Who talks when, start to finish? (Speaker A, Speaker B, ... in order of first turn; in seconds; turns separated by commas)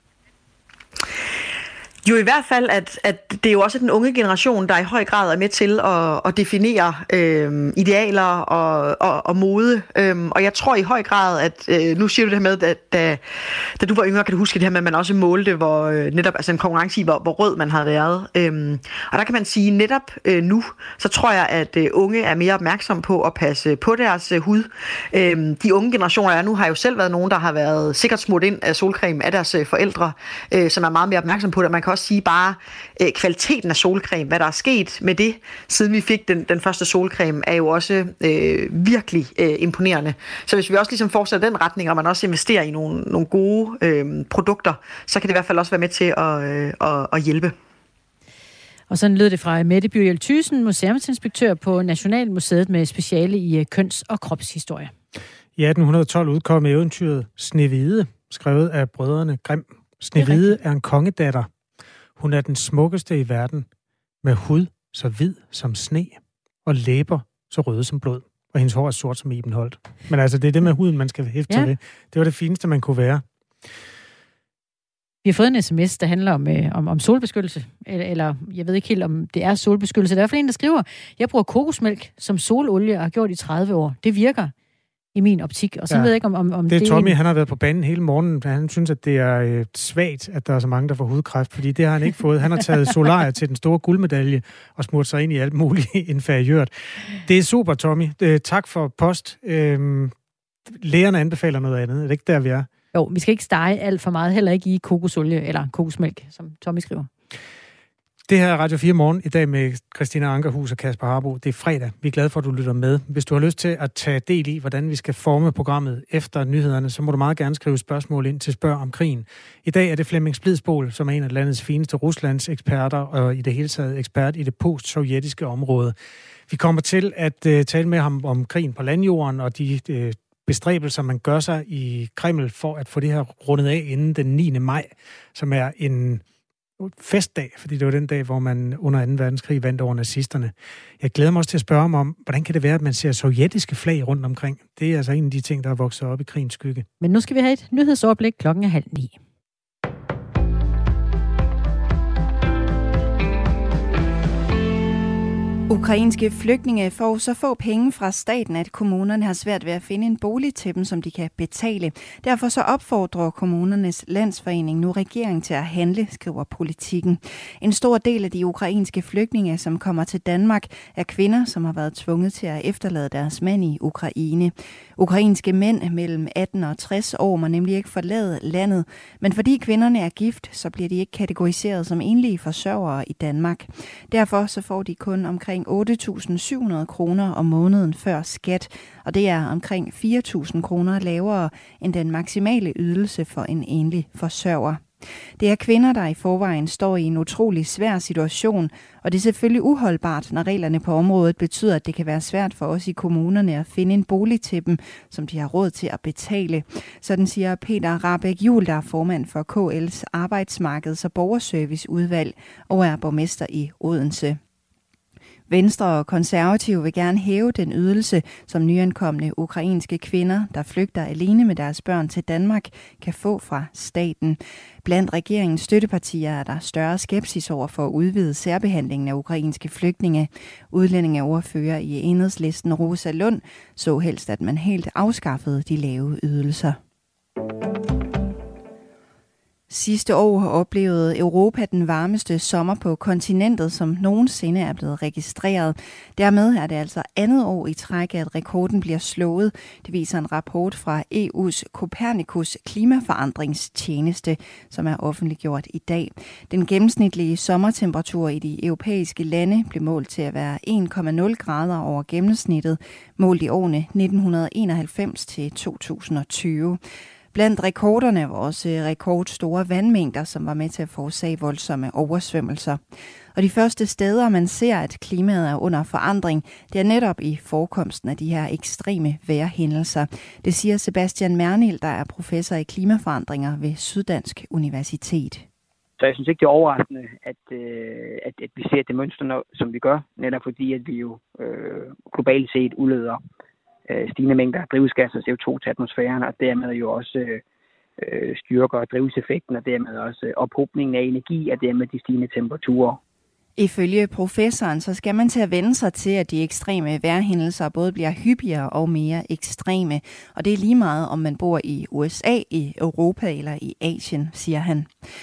Speaker A: 2.0-47.5, Speaker B: 48.9-54.9, Speaker C: 55.6-61.5, Speaker B: 60.2-60.5, Speaker C: 62.2-63.7, Speaker C: 64.2-73.2, Speaker B: 71.5-71.7, Speaker B: 75.2-84.5, Speaker B: 85.1-87.2, Speaker C: 86.7-100.1, Speaker C: 100.7-102.7, Speaker B: 102.9-107.1, Speaker C: 108.3-125.9, Speaker C: 126.5-136.2, Speaker C: 136.8-146.9, Speaker B: 147.0-149.1, Speaker D: 155.7-194.8, Speaker D: 195.4-214.4, Speaker D: 215.5-236.8, Speaker D: 239.7-266.8, Speaker D: 267.3-272.8, Speaker D: 273.3-285.4, Speaker E: 286.0-293.2, Speaker E: 293.9-297.4, Speaker E: 298.0-303.0, Speaker D: 303.6-314.9